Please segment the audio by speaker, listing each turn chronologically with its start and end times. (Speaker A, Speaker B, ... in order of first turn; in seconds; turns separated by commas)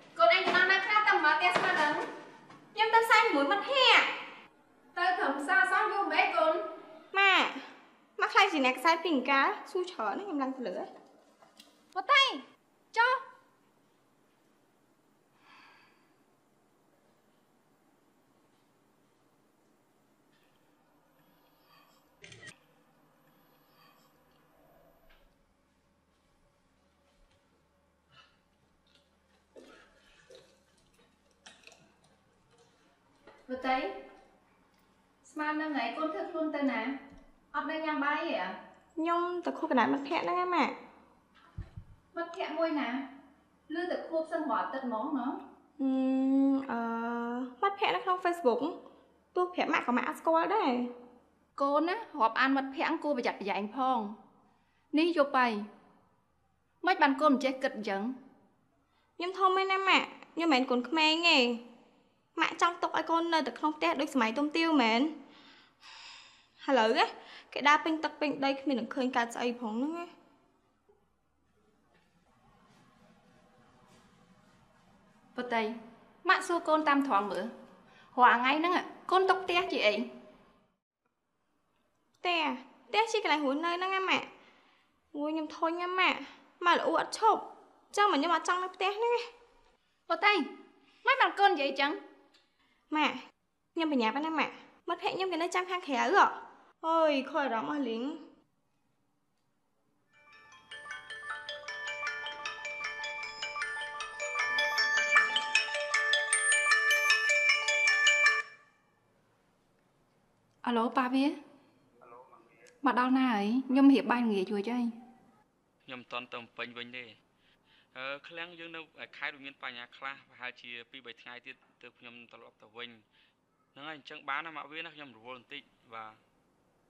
Speaker A: 0.1-2.0, Speaker B: 2.7-4.1, Speaker A: 4.9-6.6, Speaker B: 7.1-7.6, Speaker B: 8.2-10.9, Speaker A: 11.9-13.2, Speaker A: 33.5-33.9, Speaker A: 35.2-37.0, Speaker A: 37.5-38.5, Speaker B: 39.0-40.7, Speaker A: 42.1-43.0, Speaker A: 43.7-45.4, Speaker B: 45.8-48.8, Speaker B: 49.3-50.9, Speaker A: 51.5-54.1, Speaker A: 54.9-55.6, Speaker A: 56.8-58.1, Speaker B: 59.2-61.6, Speaker B: 62.4-65.1, Speaker B: 66.6-70.1, Speaker A: 75.3-77.5, Speaker A: 78.1-80.1, Speaker B: 82.2-84.3, Speaker B: 85.1-89.3, Speaker A: 90.1-90.5, Speaker A: 91.0-92.0, Speaker B: 92.9-93.2, Speaker B: 93.7-98.2, Speaker A: 110.6-111.4, Speaker A: 112.8-114.9, Speaker C: 115.8-117.2, Speaker C: 117.9-123.0, Speaker C: 123.7-126.2